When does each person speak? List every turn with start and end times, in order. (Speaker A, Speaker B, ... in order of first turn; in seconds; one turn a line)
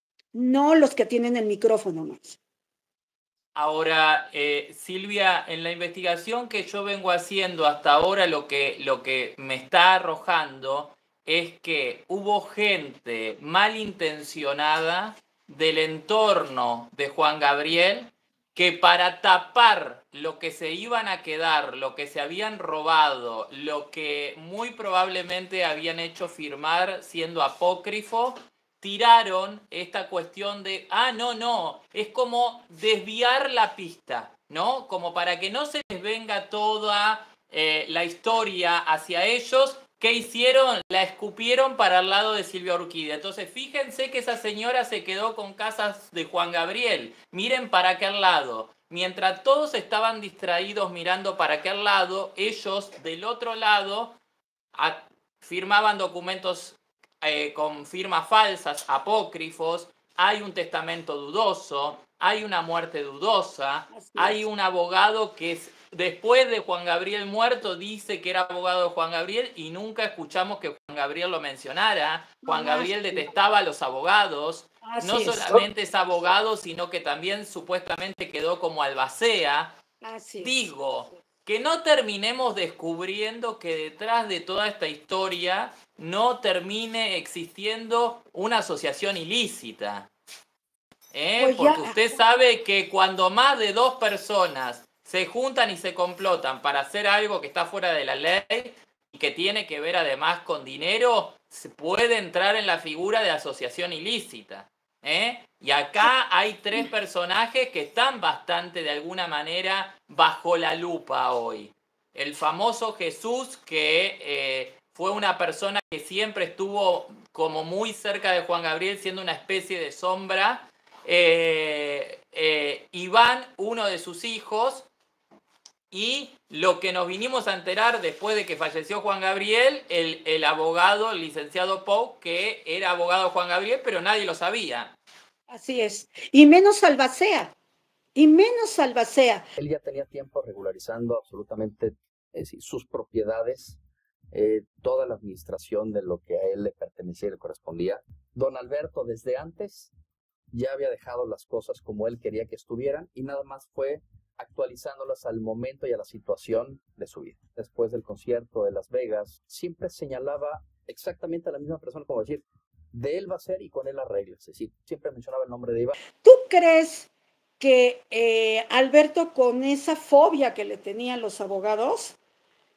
Speaker A: 0.3-2.4
Speaker B: 3.5-54.2
Speaker B: 54.7-79.8
Speaker A: 63.9-64.4
Speaker A: 72.4-73.3
Speaker A: 74.8-75.7
Speaker A: 80.0-80.7
Speaker B: 80.4-90.1
Speaker B: 91.1-124.9
Speaker A: 91.4-92.0
Speaker B: 125.9-134.9
Speaker A: 135.5-137.5
Speaker A: 138.2-139.4
Speaker C: 139.6-143.8
Speaker C: 144.3-149.9
Speaker C: 150.5-165.9
Speaker A: 166.2-172.2